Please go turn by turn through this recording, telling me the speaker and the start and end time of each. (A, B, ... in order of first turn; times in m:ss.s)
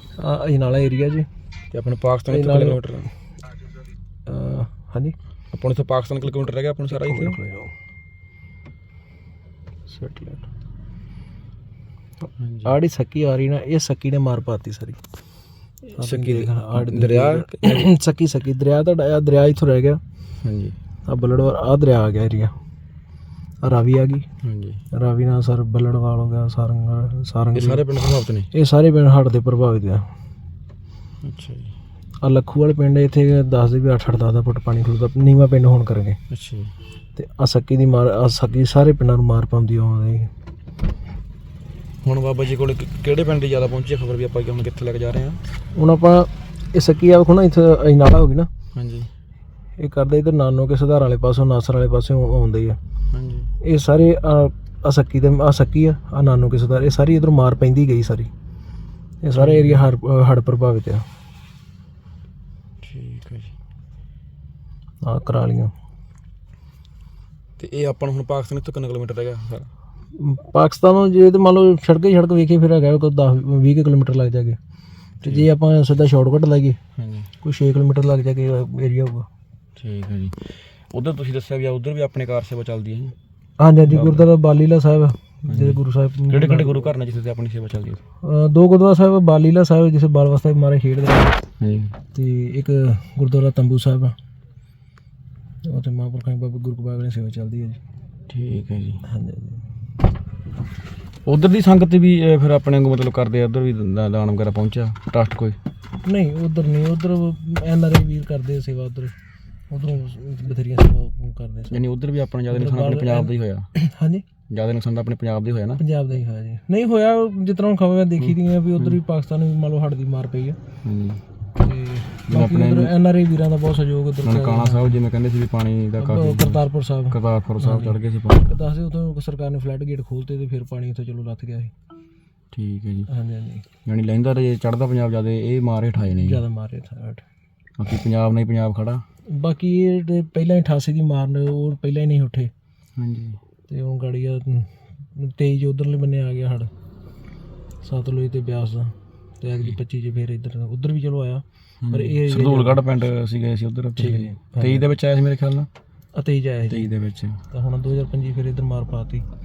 0:00.2-0:01.3 A
0:01.7-0:03.1 B
0:02.3-0:02.8 A
0:04.3-0:05.1 A
0:05.5-0:07.4 B
0:06.9-0:07.7 A
0:09.9-0:10.4 A
0:12.4-0:12.8 B
0:12.6-0:15.0 A
0:15.9-0:20.0 A
0:16.0-0:17.9 B
0:20.4-0:20.8 B
0:21.1-0:22.5 A
0:23.6-0:24.2 A
0:24.4-0:24.8 B
0:24.9-0:27.8 A
0:27.5-0:28.5 B
0:28.5-0:30.1 A
0:31.2-0:31.8 B
0:32.2-0:36.2 A
0:36.3-0:36.7 B
0:37.2-0:40.3 A
0:42.0-0:45.4 B
0:45.8-0:48.5 A
0:48.7-0:49.1 B
0:49.8-0:52.8 A
0:53.1-0:53.5 B
0:53.6-0:58.3 A
0:59.2-1:01.0 A
0:59.4-0:59.9 B
1:02.8-1:03.5 B
1:05.0-1:05.7 A
1:07.6-1:09.7 B
1:10.1-1:14.6 A
1:15.2-1:15.5 B
1:15.2-1:16.8 A
1:17.0-1:17.3 B
1:17.4-1:19.3 A
1:19.8-1:23.1 B
1:23.6-1:26.9 A
1:23.9-1:24.3 B
1:25.5-1:28.0 B
1:28.2-1:31.4 A
1:31.6-1:31.9 B
1:32.1-1:34.1 A
1:35.6-1:37.8 A
1:38.3-1:39.0 B
1:39.1-1:39.6 A
1:41.2-1:45.6 B
1:46.0-1:49.1 A
1:49.7-1:51.8 A
1:51.7-1:53.7 B
1:52.5-1:54.2 A
1:54.5-1:55.8 B
1:55.8-2:00.6 A
1:58.2-1:59.0 B
2:00.8-2:01.2 B
2:01.6-2:05.0 A
2:02.3-2:02.9 B
2:04.2-2:08.5 B
2:06.0-2:11.7 A
2:12.5-2:13.1 B
2:13.1-2:13.6 A
2:13.8-2:16.4 B
2:16.1-2:17.2 A
2:17.8-2:19.0 B
2:19.3-2:22.5 A
2:23.0-2:23.4 B
2:23.7-2:26.7 A
2:27.8-2:32.9 A
2:31.8-2:35.7 B
2:34.0-2:34.9 A
2:36.1-2:36.9 A
2:36.7-2:37.4 B
2:37.5-2:39.2 A